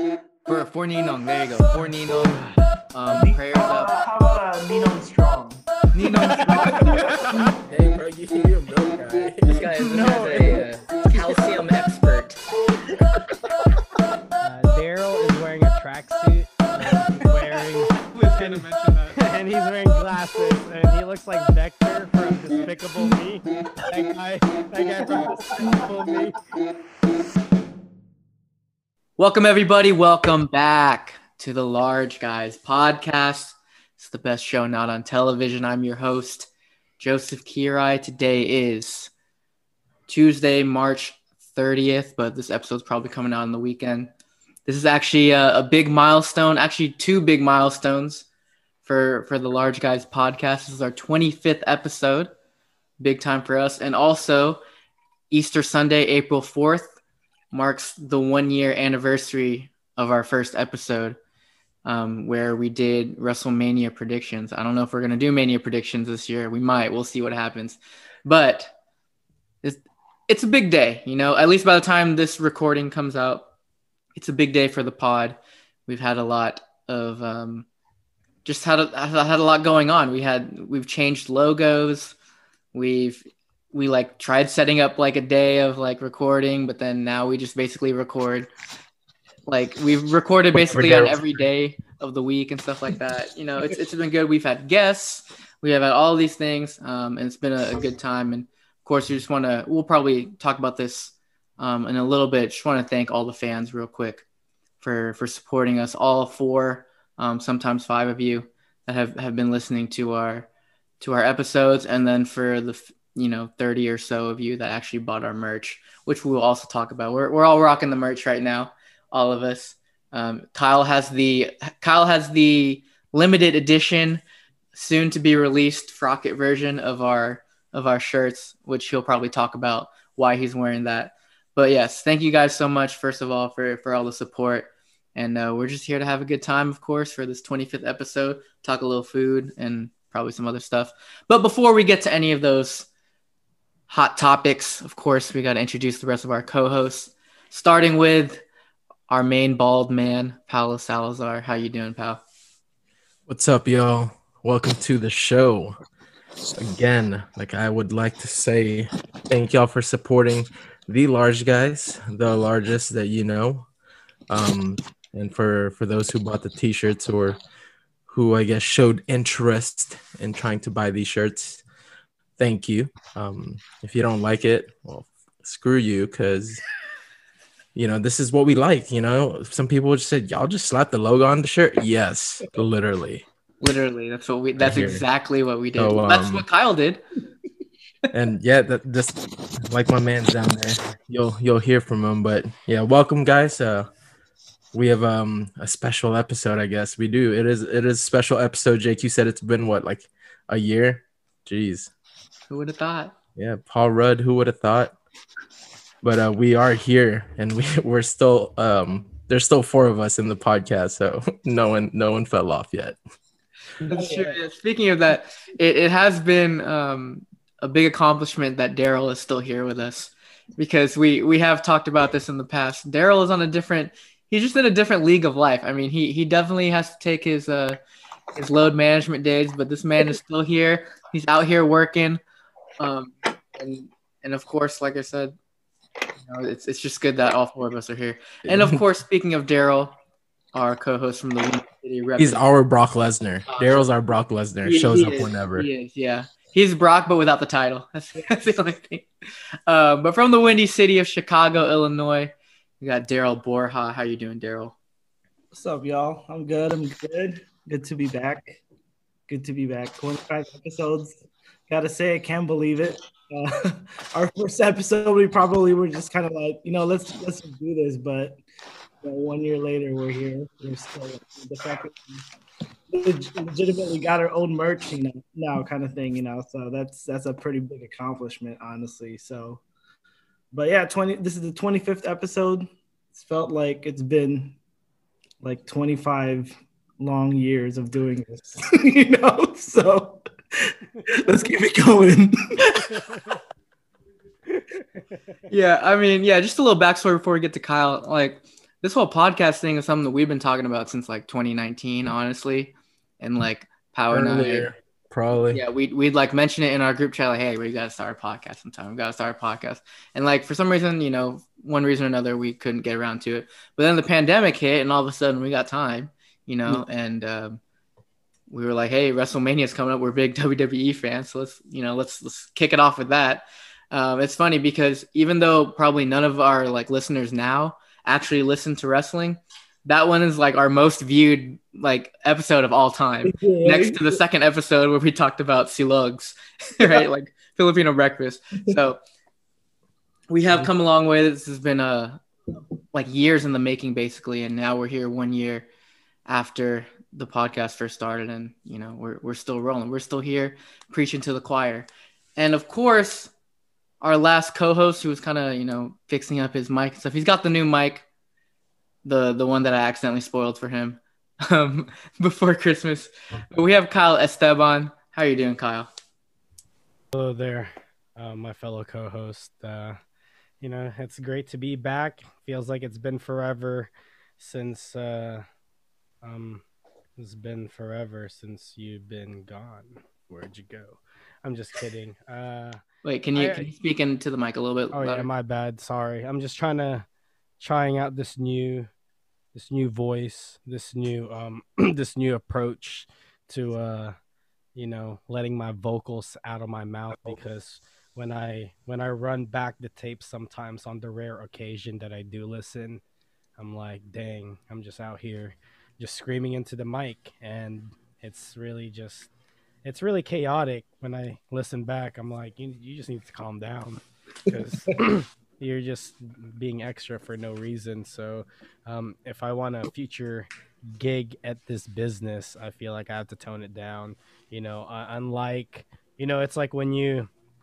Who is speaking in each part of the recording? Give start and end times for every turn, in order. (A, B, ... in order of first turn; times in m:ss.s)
0:00.4-0:03.9 A
0:03.1-0:05.6 B
0:05.9-0:07.0 A
0:06.5-0:07.0 B
0:06.6-0:07.5 C
0:07.6-0:09.7 D
0:09.4-0:12.4 A
0:09.8-0:10.6 C
0:10.2-0:10.6 B
0:14.4-0:26.4 C
0:18.1-0:19.2 A
0:25.1-0:26.0 B
0:29.2-0:39.1 A
0:40.1-0:44.1 A
0:44.6-0:48.2 A
0:48.8-0:52.3 A
0:53.0-0:54.6 A
0:55.3-0:57.0 A
0:57.5-1:01.2 A
1:01.8-1:08.7 A
1:09.6-1:13.5 A
1:14.1-1:17.7 A
1:18.4-1:22.1 A
1:22.7-1:28.5 A
1:29.4-1:44.2 A
1:30.5-1:31.2 D
1:44.8-1:50.5 A
1:51.0-2:04.2 A
2:04.7-2:22.9 A
2:23.9-2:28.4 A
2:29.1-2:32.2 A
2:33.3-2:35.7 D
2:36.5-2:43.7 D
2:44.3-2:47.4 D
2:48.1-2:51.6 D
2:52.4-2:56.6 D
2:57.7-3:03.2 D
3:03.6-3:07.0 A
3:04.6-3:05.0 D
3:05.8-3:06.4 D
3:08.1-3:13.9 D
3:14.7-3:21.9 D
3:22.5-3:23.1 A
3:23.4-3:24.9 D
3:26.0-3:33.0 D
3:33.9-3:34.4 B
3:33.9-3:47.8 A
3:48.3-3:52.2 A
3:52.8-3:55.4 A
3:56.2-3:59.9 A
3:58.4-3:58.8 D
4:00.5-4:02.4 A
4:02.2-4:05.7 D
4:03.5-4:03.8 A
4:04.6-4:09.1 A
4:09.7-4:14.7 A
4:15.5-4:18.6 B
4:19.3-4:28.4 B
4:29.0-4:32.2 B
4:32.9-4:39.6 B
4:40.5-4:44.6 B
4:45.4-4:53.3 B
4:55.5-5:04.7 A
5:04.1-5:05.6 D
5:05.5-5:17.6 A
5:18.5-5:39.0 A
5:33.2-5:34.2 B
5:40.3-5:42.2 A
5:42.9-5:45.7 A
5:46.2-5:53.3 A
5:54.0-5:58.0 A
5:59.0-6:05.9 A
6:07.1-6:10.0 C
6:10.6-6:15.4 C
6:16.2-6:16.6 C
6:17.2-6:22.8 C
6:23.0-6:25.3 A
6:23.3-6:23.7 C
6:24.9-6:27.1 C
6:27.6-6:28.9 C
6:29.5-6:34.1 C
6:34.8-6:43.0 C
6:43.6-6:49.3 C
6:49.8-7:07.3 C